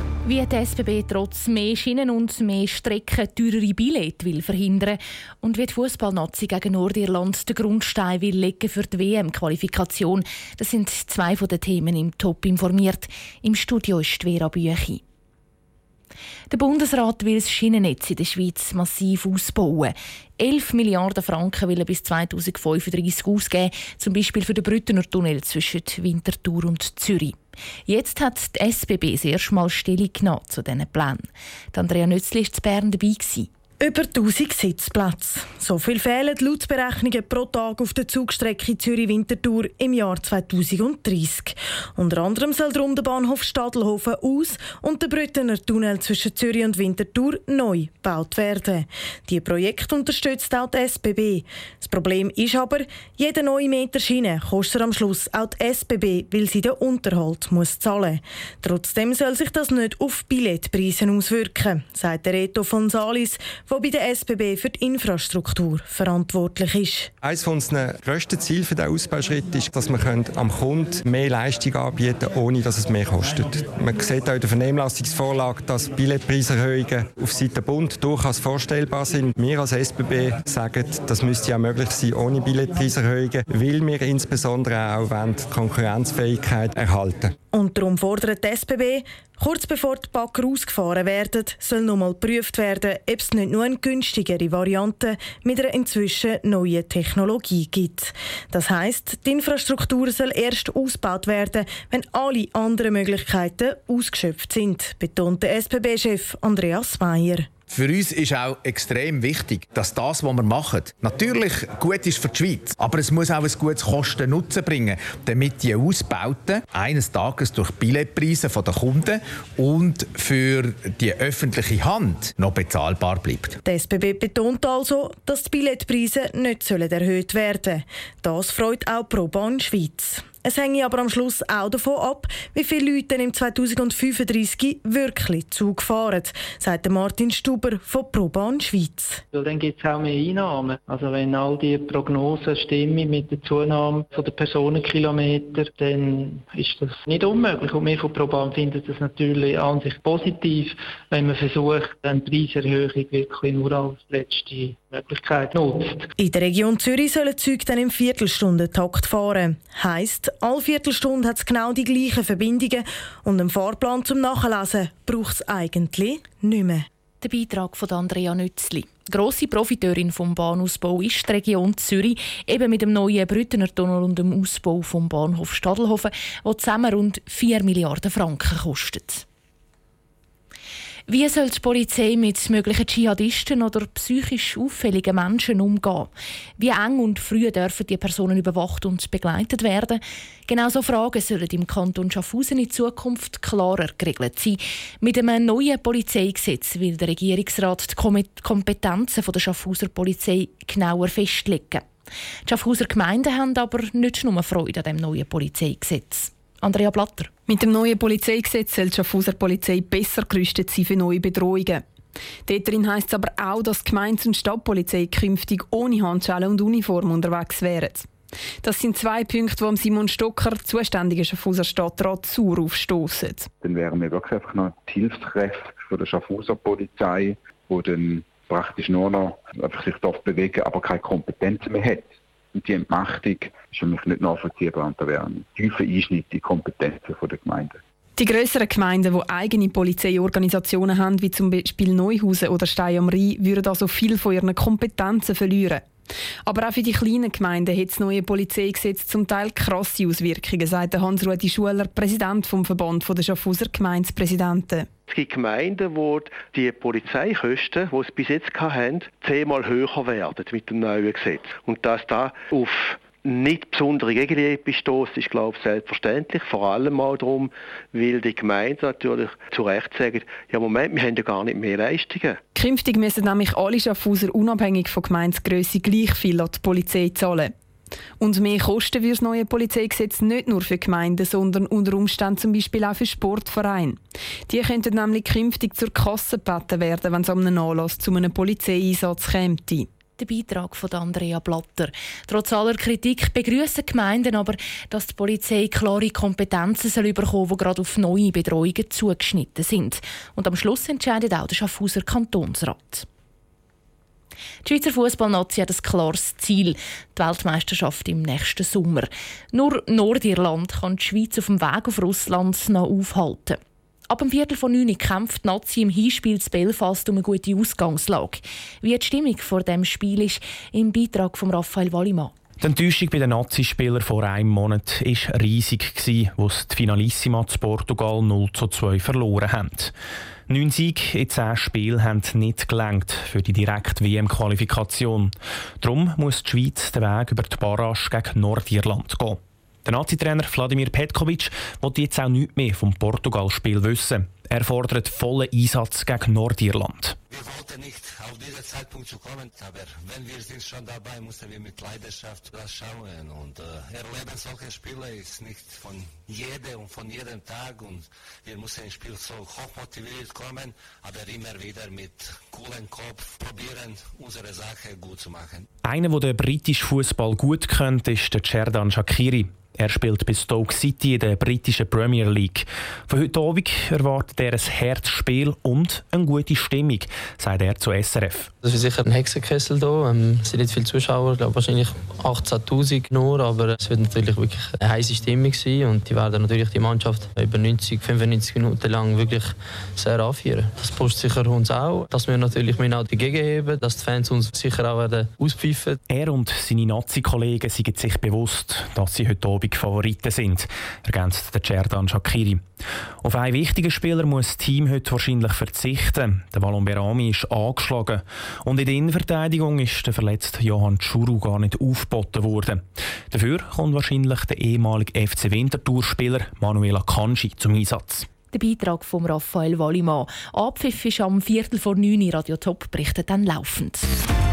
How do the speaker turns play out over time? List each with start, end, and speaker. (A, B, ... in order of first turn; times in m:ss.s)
0:00.2-0:15.0 A
0:16.5-0:27.4 A
0:27.9-0:33.5 A
0:33.8-1:07.1 B
1:07.2-1:27.4 C
1:27.5-1:47.5 B
1:47.7-2:03.6 D
2:03.6-2:19.2 B
2:19.3-2:36.1 E
2:36.2-2:46.9 B
2:47.2-2:59.2 A
3:01.1-3:21.8 A
3:22.5-3:27.3 A
3:27.5-3:31.8 F
3:32.5-3:38.1 F
3:38.6-3:43.5 F
3:43.6-3:57.8 G
3:58.2-4:05.9 F
4:06.5-4:14.9 F
4:15.1-4:32.4 H
4:32.6-4:37.5 F
4:38.2-4:49.9 F
4:50.2-5:03.1 A
5:04.6-5:22.3 A
5:22.6-5:29.9 I
5:30.5-5:47.2 I
5:47.3-6:05.7 J
6:05.9-6:18.5 I
6:18.6-6:36.0 K
6:36.1-6:42.6 I
6:43.2-6:58.3 I
6:58.5-7:04.1 A